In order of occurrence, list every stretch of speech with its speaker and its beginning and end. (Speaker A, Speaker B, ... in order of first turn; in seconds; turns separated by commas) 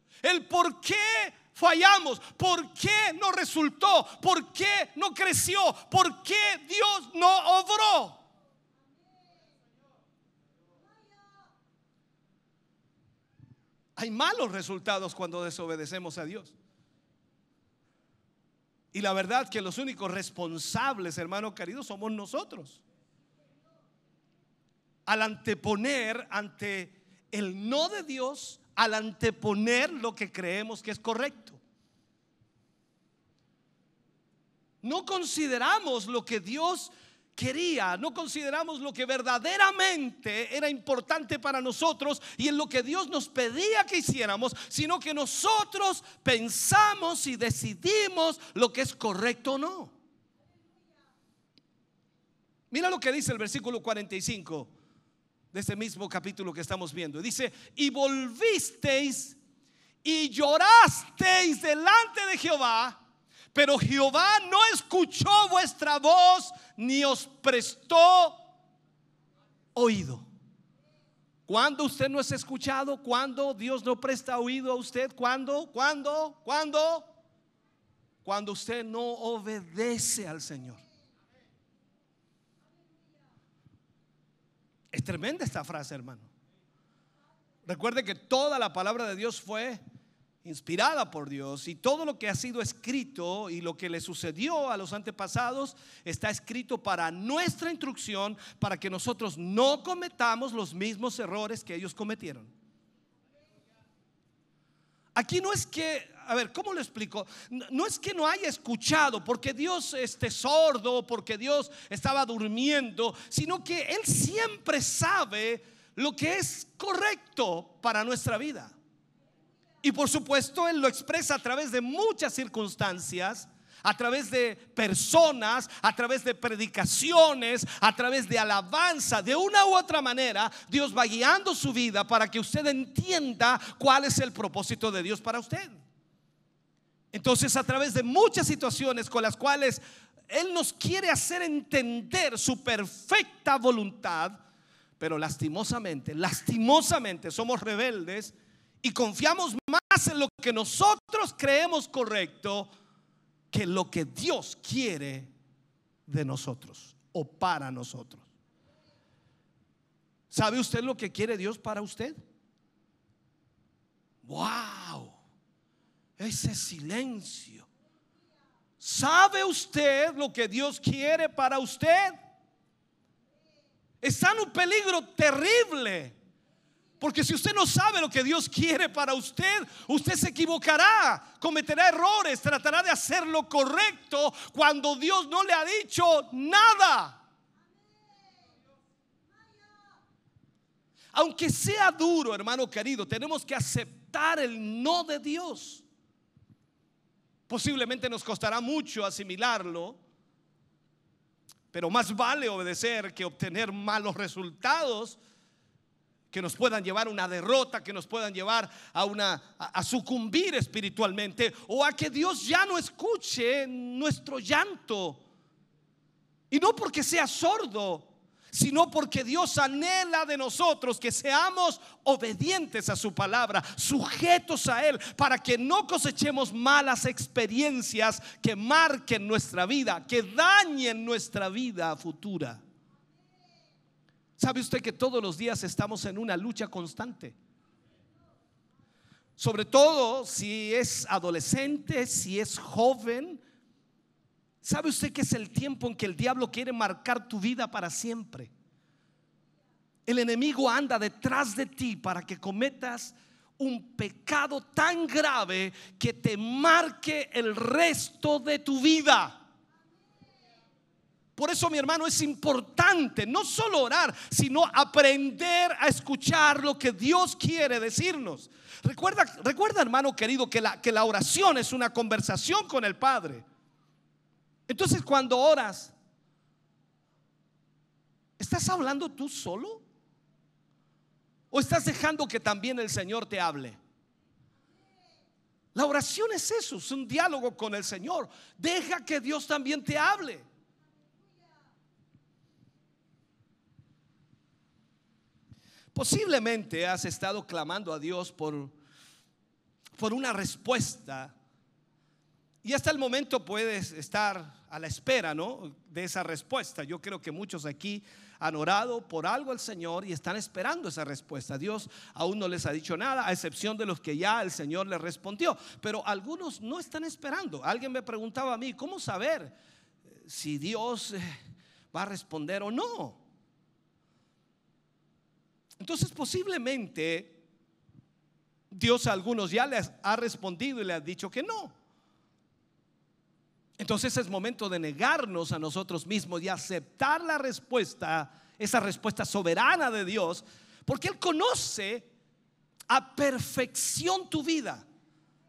Speaker A: 0.2-8.2, Speaker A: 13.9-16.6, Speaker A: 18.9-22.8, Speaker A: 25.1-31.6, Speaker A: 34.8-49.9, Speaker A: 52.7-54.7, Speaker A: 55.5-59.4, Speaker A: 60.0-63.0, Speaker A: 63.5-68.4, Speaker A: 69.7-70.3, Speaker A: 71.5-77.1, Speaker A: 78.2-80.8, Speaker A: 84.9-86.3, Speaker A: 87.7-89.8, Speaker A: 90.4-102.5, Speaker A: 105.1-118.7, Speaker A: 119.8-135.8, Speaker A: 137.1-144.4, Speaker A: 145.0-152.7, Speaker A: 153.5-155.3, Speaker A: 156.1-158.2, Speaker A: 160.3-162.2, Speaker A: 164.2-165.2, Speaker A: 166.2-167.7, Speaker A: 168.8-172.2, Speaker A: 174.0-176.2, Speaker A: 177.0-187.2, Speaker A: 191.1-195.8, Speaker A: 197.5-200.0, Speaker A: 201.7-205.2, Speaker A: 206.3-215.2, Speaker A: 216.5-232.6, Speaker A: 234.4-237.3, Speaker A: 239.4-243.4, Speaker A: 244.6-248.5, Speaker A: 250.1-259.4, Speaker A: 261.4-273.4, Speaker A: 274.7-275.9, Speaker A: 278.4-279.8, Speaker A: 281.5-283.8, Speaker A: 285.7-290.4, Speaker A: 295.9-298.7, Speaker A: 299.9-301.4, Speaker A: 302.6-319.5, Speaker A: 320.2-321.4, Speaker A: 321.9-323.2, Speaker A: 325.8-327.4, Speaker A: 328.7-331.7, Speaker A: 333.8-342.1, Speaker A: 342.9-344.9